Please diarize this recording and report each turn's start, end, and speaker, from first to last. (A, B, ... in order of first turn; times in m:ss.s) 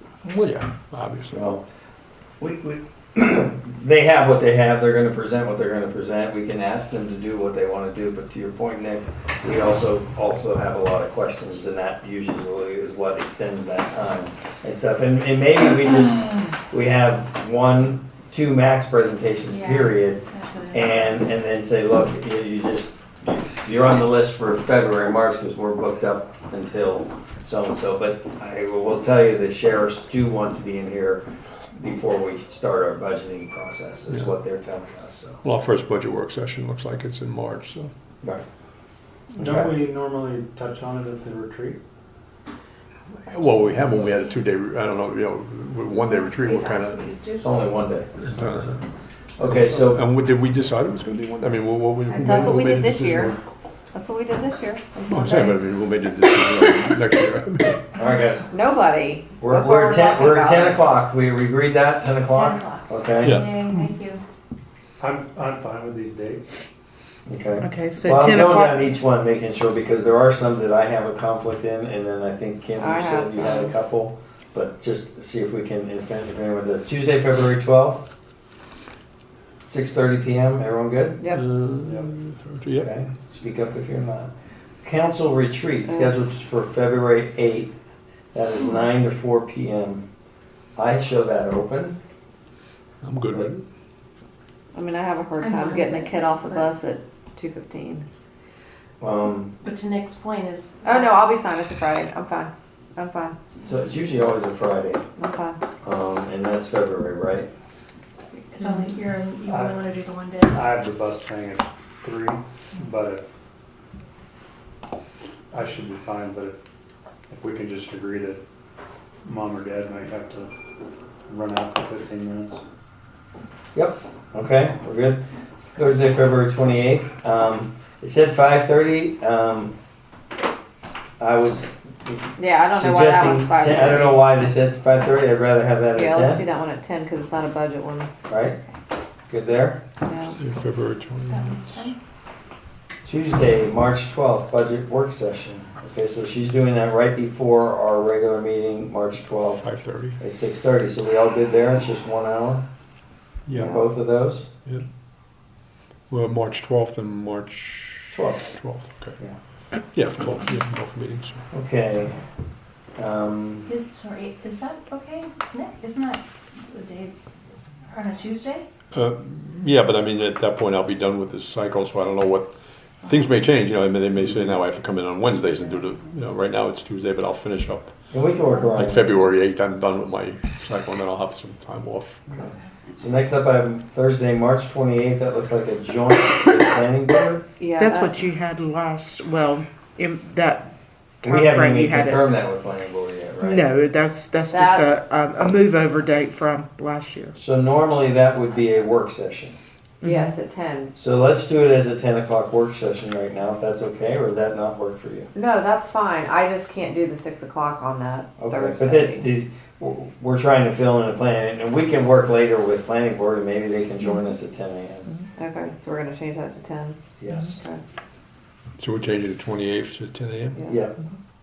0:00.2-0:01.4 A
0:01.3-0:01.6 B
0:02.4-0:31.2 B
0:19.4-0:21.2 C
0:31.7-0:35.4 B
0:34.1-0:34.3 A
0:35.4-0:37.9 A
0:39.4-0:39.7 B
0:39.4-0:41.8 D
0:43.2-0:47.1 A
0:46.0-0:47.6 C
0:47.4-0:48.8 B
0:48.2-0:48.8 A
0:49.4-0:50.0 B
0:49.4-0:53.4 A
0:52.0-0:52.7 C
0:52.2-0:53.3 E
0:53.9-0:54.8 E
0:54.9-0:55.5 C
0:55.1-0:57.8 A
0:58.0-0:58.5 B
0:58.5-1:00.8 E
0:59.4-1:03.4 B
1:02.2-1:04.2 C
1:03.2-1:03.9 A
1:05.0-1:06.5 D
1:07.2-1:18.1 B
1:07.6-1:08.8 F
1:12.8-1:13.7 E
1:19.6-1:21.2 B
1:21.3-1:22.9 A
1:22.8-1:24.3 B
1:24.8-1:27.7 B
1:25.9-1:26.1 E
1:28.3-1:30.1 B
1:30.8-1:32.0 B
1:33.0-1:33.6 A
1:34.7-1:38.0 E
1:35.4-1:36.7 C
1:39.0-1:39.5 B
1:39.6-1:41.3 C
1:40.8-1:43.4 E
1:43.6-1:45.0 B
1:45.2-1:45.6 E
1:45.8-1:47.5 B
1:48.3-1:50.6 C
1:50.5-1:53.2 D
1:55.5-1:56.6 D
1:57.3-1:58.4 D
1:59.2-2:00.5 D
2:01.3-2:02.6 D
2:03.7-2:05.2 B
2:05.7-2:09.7 B
2:11.2-2:16.4 B
2:12.4-2:14.2 E
2:15.9-2:18.1 E
2:18.3-2:18.6 B
2:19.3-2:19.8 B
2:20.0-2:20.4 E
2:20.3-2:21.9 A
2:21.3-2:22.0 C
2:23.0-2:32.7 B
2:29.6-2:30.2 A
2:33.4-2:33.8 A
2:33.5-2:34.5 B
2:36.1-2:39.2 A
2:38.1-2:38.6 B
2:39.7-2:41.4 A
2:41.5-2:42.2 B
2:43.0-2:43.7 B
2:43.7-2:47.1 C
2:47.9-2:48.7 C
2:48.9-2:58.0 A
2:58.1-2:59.1 B
2:58.7-3:02.3 A
3:02.3-3:07.4 B
3:07.6-3:08.2 E
3:07.7-3:12.4 F
3:11.2-3:13.6 B
3:13.4-3:17.3 F
3:14.5-3:14.9 E
3:17.4-3:19.6 B
3:20.0-3:20.4 F
3:20.0-3:20.9 E
3:20.9-3:25.3 B
3:25.3-3:29.3 E
3:28.4-3:35.1 B
3:35.4-3:37.0 E
3:37.2-3:37.6 B
3:37.6-3:37.8 E
3:38.8-3:40.6 A
3:40.7-3:40.9 B